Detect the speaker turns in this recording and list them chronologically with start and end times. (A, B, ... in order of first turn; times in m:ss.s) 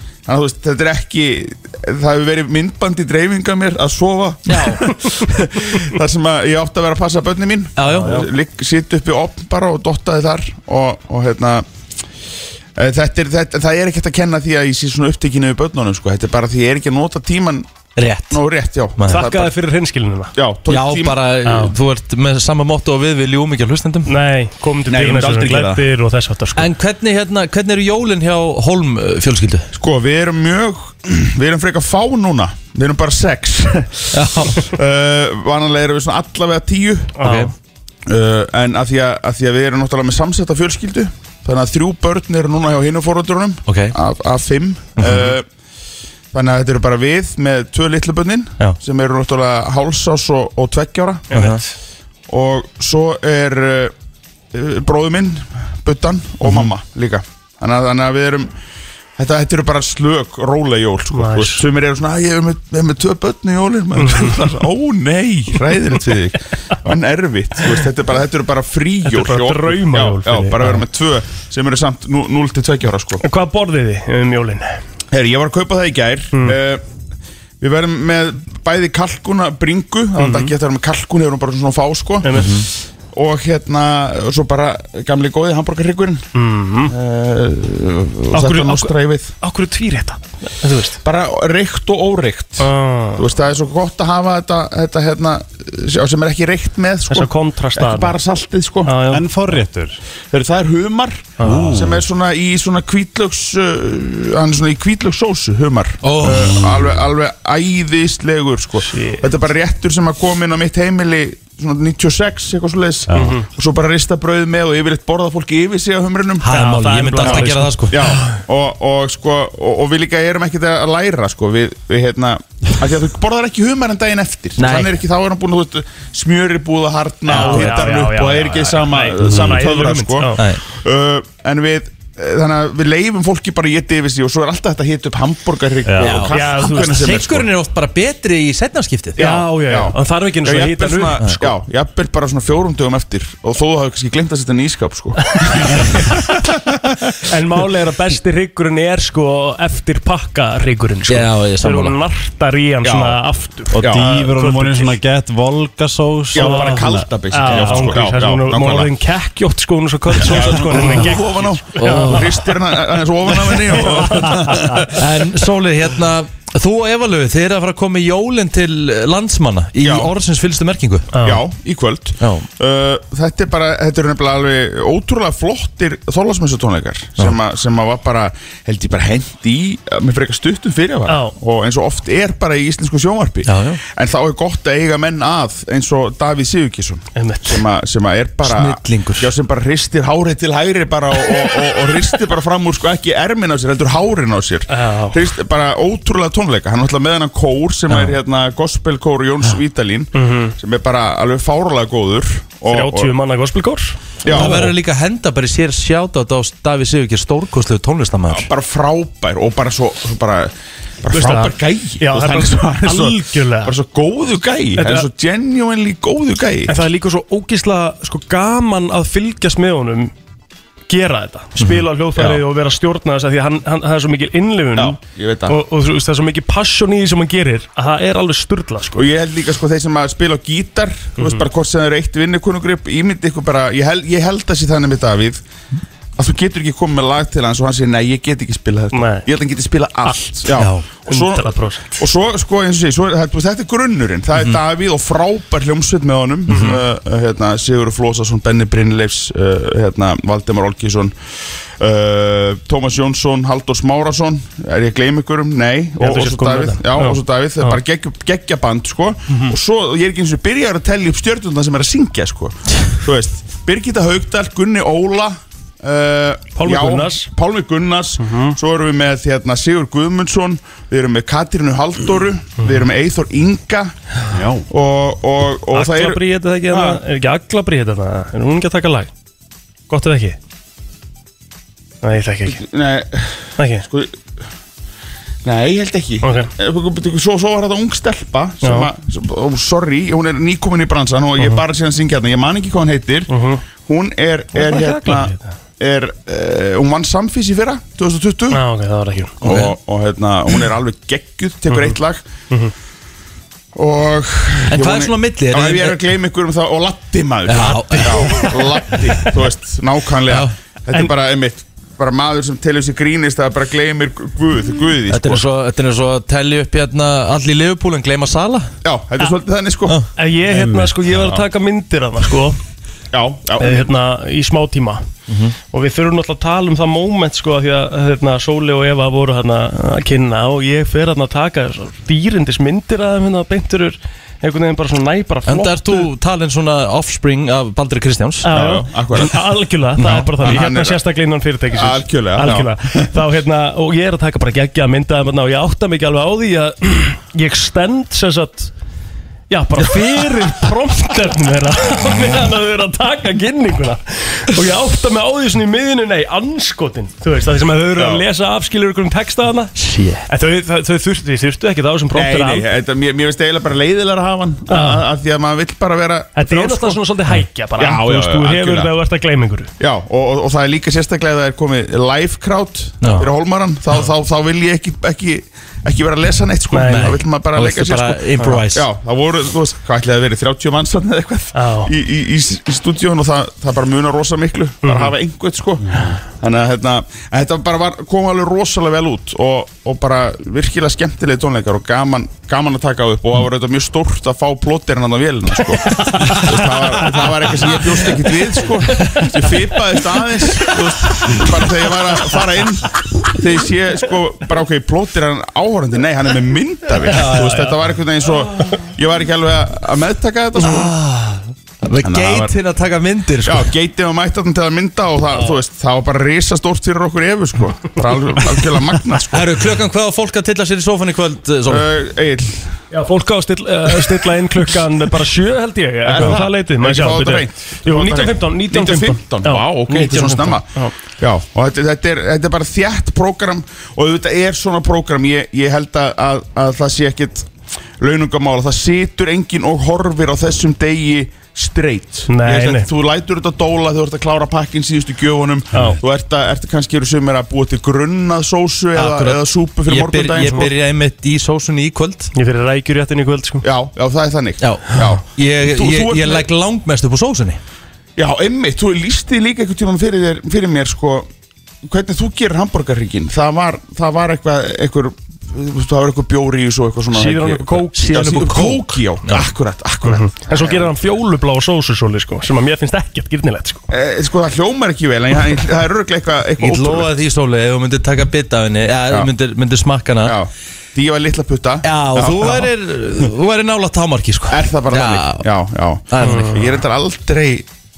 0:00.2-0:11.6 A
0:04.5-0:04.8 B
0:07.8-0:08.3 B
0:12.8-0:17.7 A
0:18.0-0:18.4 B
0:18.3-0:19.5 A
0:19.0-0:19.2 B
0:19.1-0:20.3 C
0:20.4-0:21.2 A
0:20.7-0:24.1 B
0:21.4-0:21.7 C
0:24.0-0:26.7 C
0:25.0-0:25.7 A
0:25.0-0:25.8 B
0:26.6-0:29.7 B
0:29.7-0:37.1 A
0:34.1-0:34.6 B
0:37.2-0:37.5 C
0:37.2-0:37.5 B
0:38.0-0:45.4 A
0:43.7-0:43.9 B
0:45.0-0:45.3 B
0:46.3-0:51.2 A
0:51.3-0:51.7 C
0:51.3-0:51.6 B
0:52.3-0:53.9 A
0:54.5-0:58.5 A
0:59.2-1:13.2 A
1:01.1-1:01.6 C
1:04.0-1:04.6 C
1:09.0-1:10.8 C
1:13.2-1:14.8 C
1:15.1-1:16.8 A
1:17.6-1:22.6 A
1:20.2-1:20.5 C
1:22.2-1:22.5 C
1:22.3-1:22.6 B
1:23.1-1:26.2 A
1:26.3-1:26.9 C
1:26.9-1:29.3 A
1:28.3-1:31.0 C
1:31.0-1:39.0 A
1:32.6-1:33.2 C
1:37.1-1:38.1 C
1:38.8-1:39.5 C
1:39.1-1:40.0 D
1:40.3-1:56.5 A
1:41.4-1:41.8 C
1:41.4-1:42.0 D
1:46.0-1:46.7 B
1:48.9-1:49.3 C
1:53.1-1:53.4 D
1:53.1-1:53.5 C
1:56.4-1:58.0 B
1:56.5-1:58.3 C
1:57.2-2:17.5 A
2:04.6-2:04.9 B
2:07.3-2:10.4 C
2:09.2-2:09.5 D
2:15.8-2:16.2 D
2:16.0-2:19.2 B
2:16.3-2:17.0 C
2:19.2-2:26.2 A
2:19.2-2:21.5 C
2:25.4-2:26.0 C
2:27.2-2:35.0 C
2:31.1-2:32.0 B
2:32.8-2:33.2 A
2:33.7-2:38.0 D
2:33.8-2:34.1 A
2:36.3-2:38.9 A
2:36.3-2:42.6 C
2:40.2-2:45.0 A
2:41.8-2:42.2 B
2:43.5-2:44.5 C
2:44.9-2:51.1 B
2:49.8-2:50.1 A
2:51.1-2:51.4 C
2:51.2-3:23.1 A
2:52.2-2:52.5 B
3:01.1-3:01.3 C
3:03.4-3:03.8 B
3:07.2-3:07.6 C
3:08.4-3:09.3 B
3:14.7-3:15.3 C
3:20.1-3:20.5 C
3:22.7-3:24.6 C
3:24.2-3:24.7 A
3:24.2-3:28.5 B
3:28.3-3:30.5 A
3:31.0-3:36.7 A
3:31.1-3:33.7 C
3:34.8-3:35.1 C
3:36.7-3:40.1 C
3:40.9-3:49.1 C
3:42.2-3:42.4 A
3:44.8-3:45.6 A
3:48.9-3:55.4 A
3:51.2-3:51.5 C
3:56.2-4:11.1 A
3:58.9-3:59.3 C
4:00.0-4:02.0 C
4:06.5-4:06.8 C
4:11.8-4:33.9 A
4:16.0-4:17.8 C
4:26.6-4:27.3 C
4:28.2-4:28.6 C
4:32.6-4:32.9 C
4:34.3-4:34.6 D
4:34.7-4:37.0 A
4:35.7-4:39.1 C
4:39.9-4:40.4 C
4:42.0-4:42.6 C
4:42.5-4:44.2 A
4:43.6-4:43.9 C
4:45.4-4:58.6 A
4:46.2-4:46.5 C
4:48.6-4:48.9 C
4:53.3-4:53.6 C
4:54.5-4:55.5 C
4:58.5-4:59.4 C
4:59.4-5:02.2 A
4:59.4-4:59.7 B
5:01.7-5:02.0 C
5:03.7-5:15.4 A
5:04.7-5:06.0 B
5:07.4-5:09.2 B
5:07.9-5:08.3 C
5:15.1-5:18.7 B
5:18.8-5:20.0 A
5:20.2-5:22.6 C
5:20.5-5:21.0 D
5:23.1-5:23.9 A
5:23.6-5:25.0 C
5:25.3-5:25.5 B
5:25.7-5:36.1 C
5:35.5-5:38.5 B
5:38.4-5:48.7 C
5:38.5-5:39.4 A
5:40.0-5:40.3 B
5:40.4-5:41.0 A
5:41.7-5:43.1 A
5:49.5-5:59.7 C
5:58.0-5:58.2 A
5:59.8-6:00.2 B
6:00.3-6:02.6 C
6:02.1-6:07.0 A
6:04.7-6:05.0 C
6:06.4-6:09.7 C
6:07.8-6:08.9 A
6:09.8-6:50.9 A
6:13.0-6:13.2 B
6:16.7-6:17.2 C
6:16.8-6:18.8 B
6:21.5-6:21.9 C
6:24.8-6:25.1 C
6:36.0-6:36.4 C
6:47.1-6:47.4 B
6:47.2-6:47.7 C
6:50.6-6:53.7 B
6:52.0-6:52.5 A
6:53.4-6:59.5 A
6:59.3-7:01.8 B
7:01.7-7:02.8 A
7:02.9-7:10.9 C
7:06.0-7:10.7 A
7:11.2-7:17.5 A
7:18.0-7:30.7 A
7:22.3-7:22.9 C
7:25.7-7:26.0 C
7:28.9-7:32.3 B
7:32.3-7:33.6 C
7:33.6-7:36.5 A
7:34.6-7:37.6 B
7:38.2-7:41.3 A
7:41.8-7:50.9 A
7:47.1-7:49.0 C
7:50.0-7:53.8 C
7:53.9-7:57.1 A
7:56.6-8:00.3 B
8:00.2-8:02.7 A
8:01.8-8:05.5 B
8:04.5-8:07.6 A
8:06.1-8:06.5 B
8:06.2-8:06.8 C